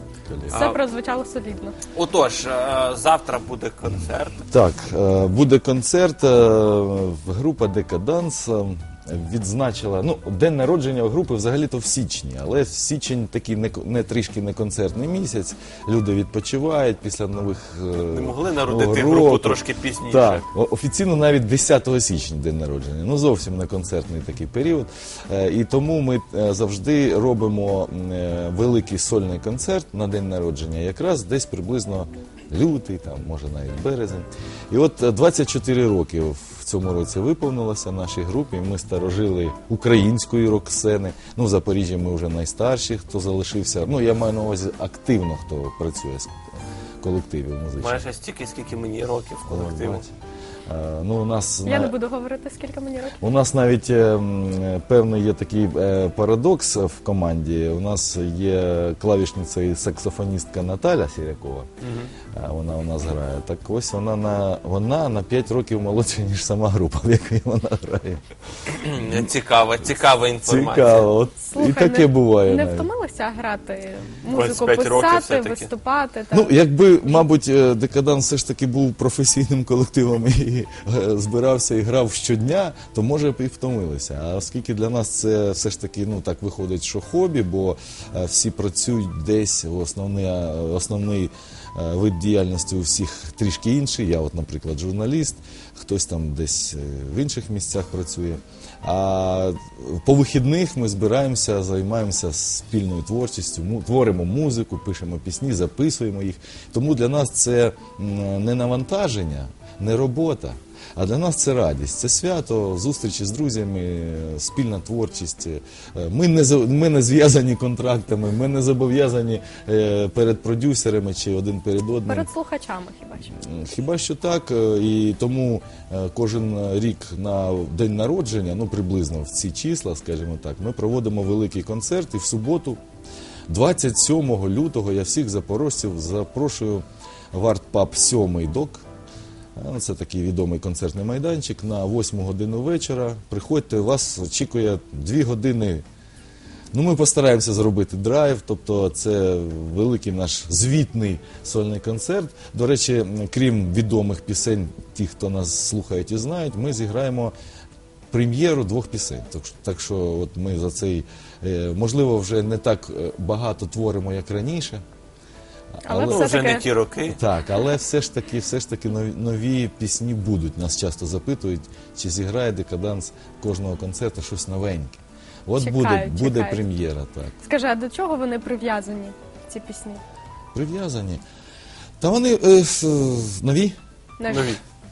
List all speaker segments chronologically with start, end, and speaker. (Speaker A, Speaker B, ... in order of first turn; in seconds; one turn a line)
Speaker A: 0.2-0.6
Speaker B: 0.5-1.8
Speaker C: 0.5-0.8
Speaker C: 1.9-4.5
Speaker A: 4.5-46.5
Speaker C: 18.1-20.4
Speaker A: 47.0-48.0
Speaker C: 47.8-50.0
Speaker A: 49.5-50.1
Speaker A: 50.7-52.0
Speaker B: 51.6-53.2
Speaker A: 53.2-61.7
Speaker C: 61.8-62.1
Speaker A: 62.3-68.2
Speaker C: 68.7-71.1
Speaker A: 70.4-72.9
Speaker B: 71.4-76.5
Speaker C: 74.3-75.7
Speaker A: 76.3-122.3
Speaker B: 122.1-123.3
Speaker A: 123.3-132.8
Speaker A: 133.5-138.8
Speaker A: 139.6-145.8
Speaker A: 146.7-157.3
Speaker A: 158.1-164.8
Speaker A: 165.8-166.3
Speaker B: 165.8-166.7
Speaker C: 166.0-167.2
Speaker A: 167.1-177.3
Speaker B: 175.6-176.6
Speaker B: 177.4-180.0
Speaker A: 180.5-181.2
Speaker A: 182.0-183.8
Speaker B: 184.2-184.5
Speaker C: 184.3-184.6